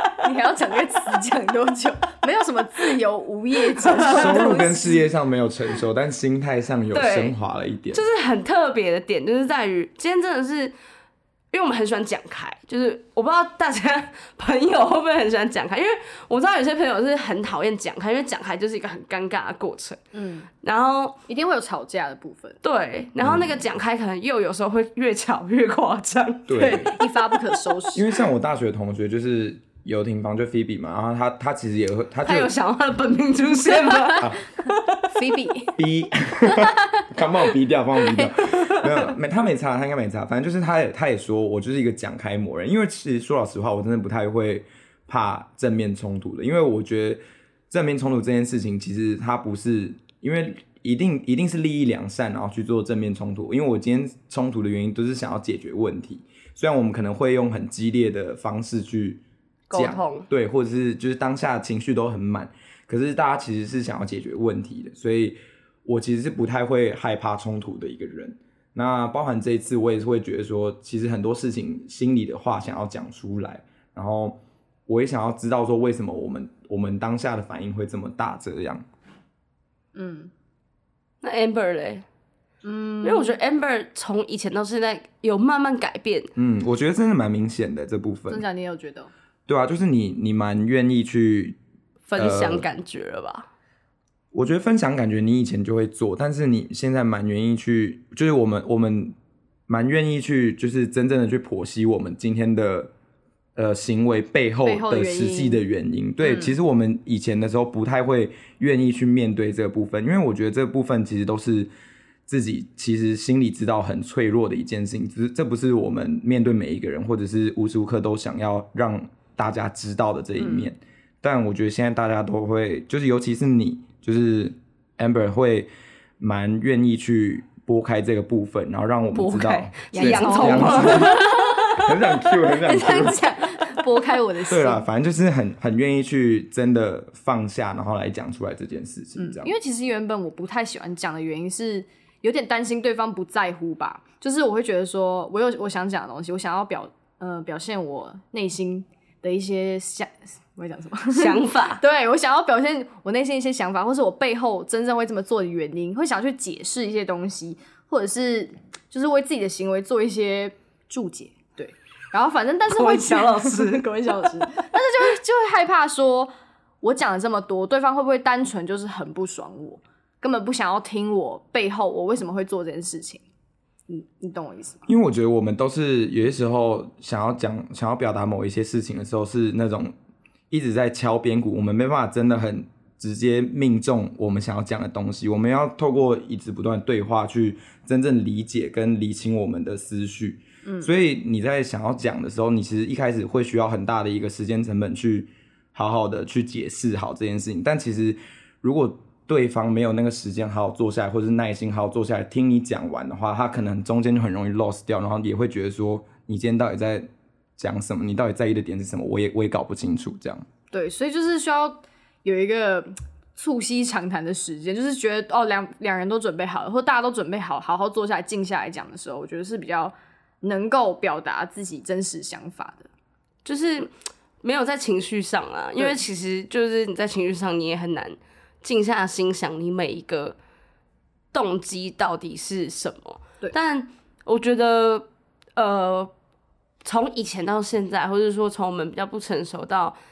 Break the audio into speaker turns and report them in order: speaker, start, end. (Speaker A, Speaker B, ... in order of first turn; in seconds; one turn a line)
Speaker A: 0.2-5.1
Speaker B: 3.7-4.4
Speaker C: 4.0-8.1
Speaker B: 6.9-7.3
Speaker B: 7.9-10.7
Speaker B: 11.5-20.0
Speaker A: 20.1-20.5
Speaker B: 20.6-21.2
Speaker A: 21.3-22.6
Speaker B: 22.6-27.3
Speaker C: 23.2-23.6
Speaker C: 26.5-26.9
Speaker A: 26.5-28.0
Speaker C: 27.9-32.5
Speaker B: 32.2-35.5
Speaker A: 35.1-35.7
Speaker C: 35.8-59.2
Speaker A: 36.5-37.0
Speaker B: 59.7-60.3
Speaker C: 59.7-78.8
Speaker A: 80.0-80.3
Speaker B: 81.2-82.0
Speaker A: 82.6-83.4
Speaker B: 83.0-86.3
Speaker C: 86.4-88.5
Speaker A: 88.3-89.1
Speaker C: 89.5-91.6
Speaker B: 92.1-93.5
Speaker C: 92.2-92.7
Speaker C: 94.3-99.1
Speaker C: 99.7-102.9
Speaker C: 103.6-111.7
Speaker A: 104.7-105.7
Speaker A: 106.2-106.5
Speaker C: 112.3-133.3
Speaker A: 120.4-120.7
Speaker B: 129.1-131.9
Speaker A: 129.9-134.9
Speaker C: 134.5-139.5
Speaker A: 139.2-166.3
Speaker B: 151.1-151.8
Speaker B: 162.7-164.3
Speaker A: 166.8-173.2
Speaker A: 173.9-174.8
Speaker C: 174.9-179.9
Speaker C: 180.5-207.1
Speaker A: 190.7-190.9
Speaker C: 207.6-210.5
Speaker A: 210.7-222.9
Speaker B: 223.4-223.9
Speaker B: 224.4-230.4
Speaker B: 231.3-236.1
Speaker B: 236.8-240.0